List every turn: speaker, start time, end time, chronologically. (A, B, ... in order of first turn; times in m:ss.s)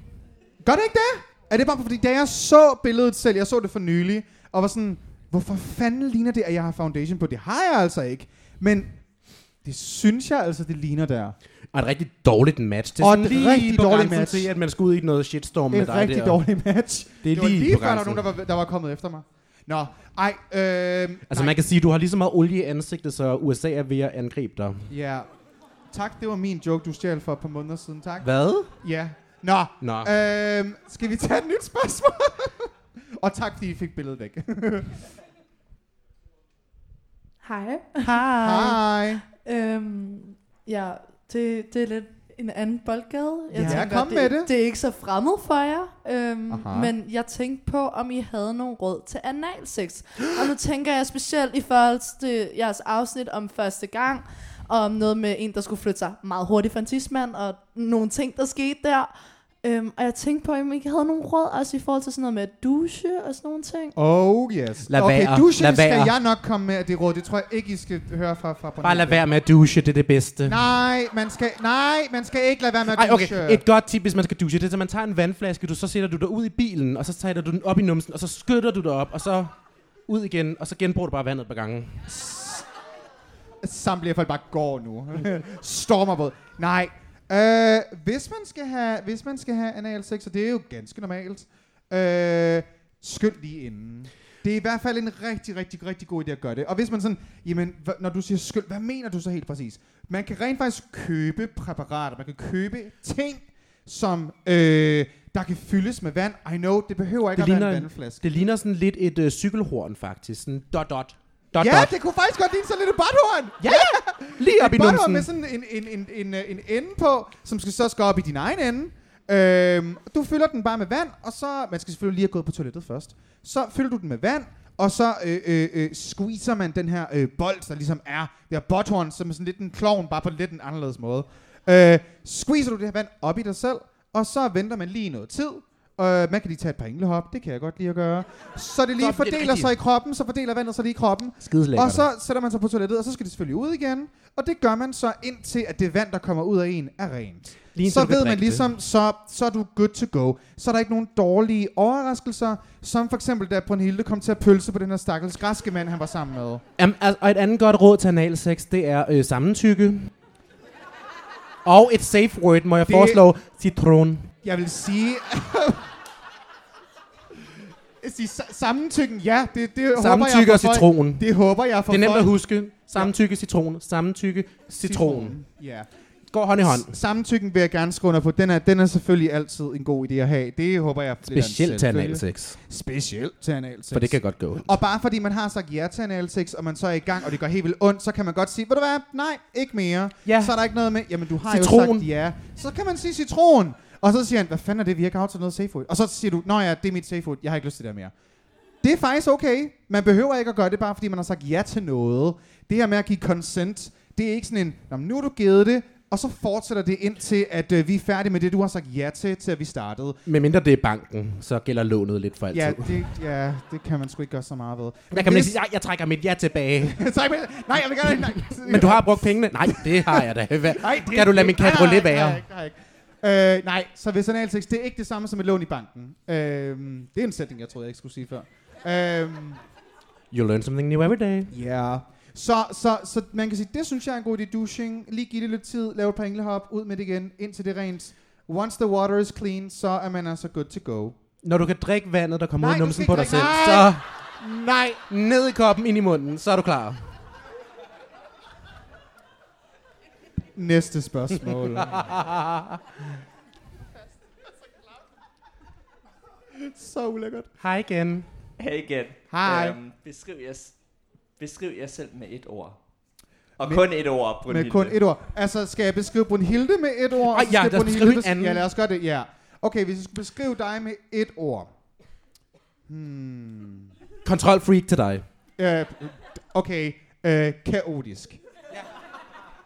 0:00.6-0:09.0 A
0:09.6-0:11.4 A
0:11.7-0:16.4 B
0:13.0-0:14.5 A
0:15.7-0:21.6 A
0:17.2-0:18.3 B
0:21.3-0:24.9 B
0:24.9-0:25.3 A
0:25.9-0:35.1 A
0:28.2-0:28.7 B
0:29.8-0:30.1 B
0:37.4-0:38.2 C
0:38.0-0:38.8 B
0:38.4-0:39.2 A
0:39.4-1:04.0 C
0:43.5-0:43.8 B
0:43.6-0:44.5 A
0:46.5-0:46.9 A
1:04.0-1:09.2 A
1:04.9-1:06.2 B
1:08.8-1:10.6 B
1:10.5-1:13.6 A
1:12.9-1:19.5 B
1:20.1-1:22.1 B
1:22.1-1:22.6 A
1:23.6-1:48.2 A
1:47.4-1:51.9 B
1:51.6-2:36.6 A
1:53.6-1:55.3 B
2:19.0-2:19.8 B
2:21.4-2:22.1 B
2:27.8-2:28.7 B
2:36.8-2:40.1 B
2:41.6-2:44.3 B
2:42.9-2:43.2 A
2:44.4-2:45.9 A
2:48.0-2:53.1 A
2:50.0-2:51.2 B
2:51.9-2:55.4 B
2:54.8-2:55.9 A
2:56.3-2:57.0 B
2:56.6-3:18.1 A
3:01.3-3:02.6 B
3:03.9-3:04.7 B
3:10.3-3:10.6 B
3:11.5-3:12.1 B
3:18.8-3:30.2 A
3:30.3-3:33.1 B
3:32.5-3:35.6 A
3:35.1-3:37.0 B
3:36.8-3:49.6 A
3:38.4-3:42.4 B
3:50.3-3:51.5 B
3:51.5-4:01.2 A
4:01.4-4:04.0 B
4:02.6-4:05.0 A
4:05.1-4:07.2 B
4:10.6-4:12.2 A
4:11.9-4:12.8 B
4:16.5-4:17.5 A
4:17.6-4:18.3 B
4:18.6-4:20.6 D
4:19.3-4:19.8 A
4:21.4-4:22.7 D
4:23.6-4:23.9 A
4:23.6-4:24.9 D
4:24.5-4:31.7 A
4:27.3-4:28.7 B
4:32.9-4:33.9 A
4:34.2-4:35.2 B
4:35.6-4:38.4 A